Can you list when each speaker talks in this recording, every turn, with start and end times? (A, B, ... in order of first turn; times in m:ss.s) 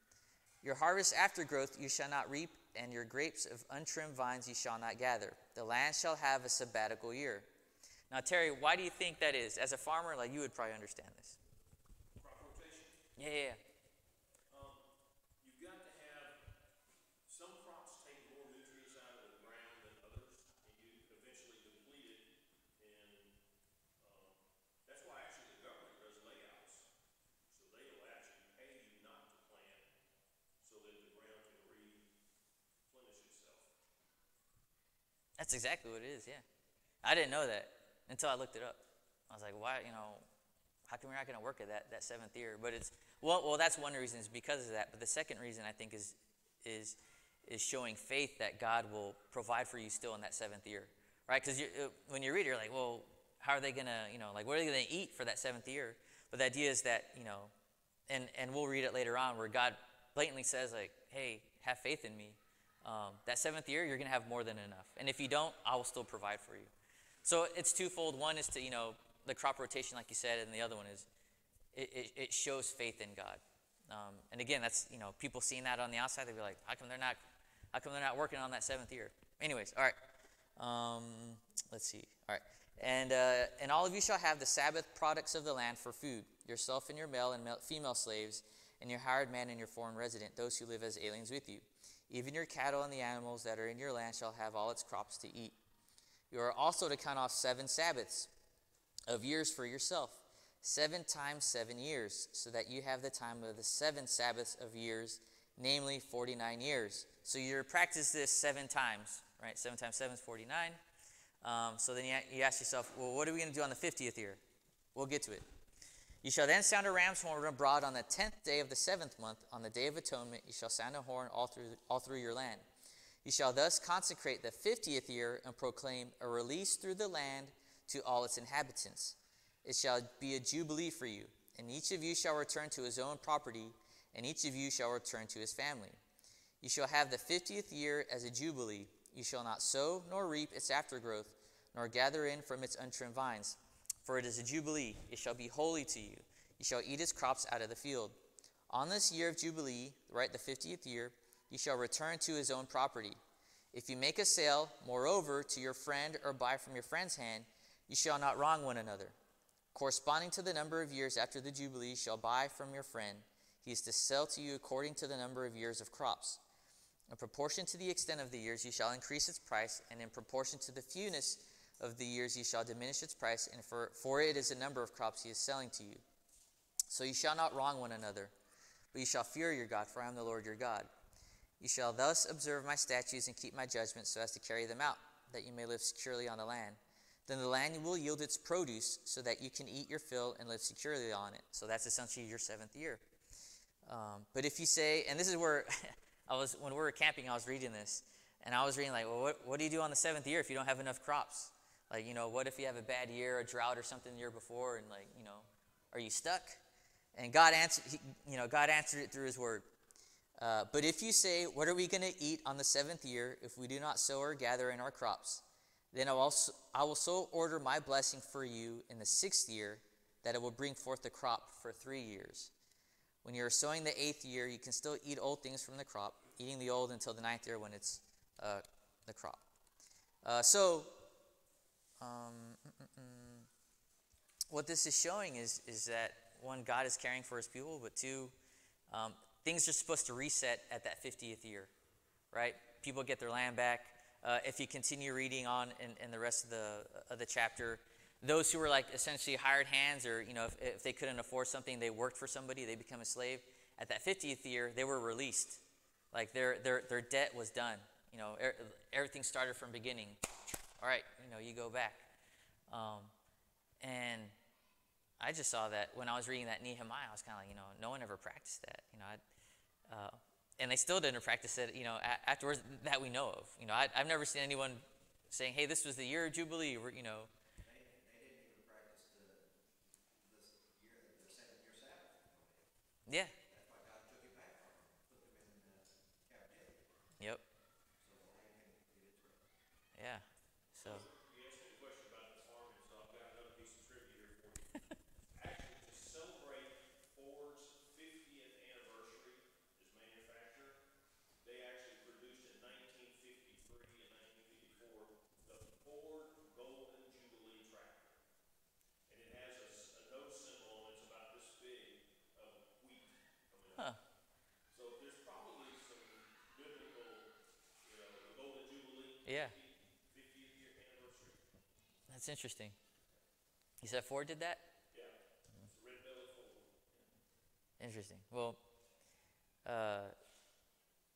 0:00.6-0:07.5 A
0:08.1-0:11.4 A
0:12.2-0:13.0 B
0:13.2-0:13.6 A
0:14.5-0:14.8 B
0:15.4-0:16.4 B
0:17.3-0:22.3 B
0:22.8-0:23.3 B
0:24.0-0:26.9 B
0:27.5-0:29.8 B
0:30.6-0:32.1 B
0:32.9-0:33.7 B
0:35.4-0:36.4 A
0:37.0-0:40.2 A
0:40.9-0:57.5 A
0:58.1-1:06.7 A
1:07.2-1:11.1 A
1:11.7-1:17.2 A
1:17.7-1:20.0 A
1:20.6-1:35.6 A
1:36.3-1:38.3 A
1:39.1-1:50.8 A
1:51.4-1:54.4 A
1:55.0-1:55.5 A
1:56.2-2:02.6 A
2:03.2-2:16.0 A
2:16.6-2:28.2 A
2:28.7-2:33.2 A
2:33.7-2:39.2 A
2:39.7-2:46.4 A
2:47.1-2:56.0 A
2:56.9-2:58.3 A
2:58.9-3:00.9 A
3:01.6-3:13.0 A
3:13.8-3:26.6 A
3:27.2-3:29.7 A
3:30.4-3:42.5 A
3:43.2-3:49.4 A
3:50.2-3:51.0 A
3:52.0-3:53.5 A
3:54.5-3:58.3 A
3:58.9-4:01.7 A
4:02.3-4:20.2 A
4:20.8-4:22.1 A
4:22.7-4:23.1 A
4:23.8-4:24.3 A
4:25.2-4:29.2 A
4:29.9-4:37.3 A
4:37.6-4:42.7 C
4:43.1-4:43.4 A
4:43.4-4:46.9 C
4:48.0-4:49.5 C
4:50.0-4:51.1 A
4:50.8-4:54.8 B
4:55.3-5:00.8 B
5:01.4-5:08.2 B
5:09.1-5:13.9 B
5:14.7-5:17.3 B
5:17.8-5:21.4 B
5:19.2-5:19.6 A
5:22.1-5:22.8 A
5:23.8-5:24.7 A
5:25.7-5:27.0 B
5:27.8-5:28.6 A
5:29.6-5:30.2 A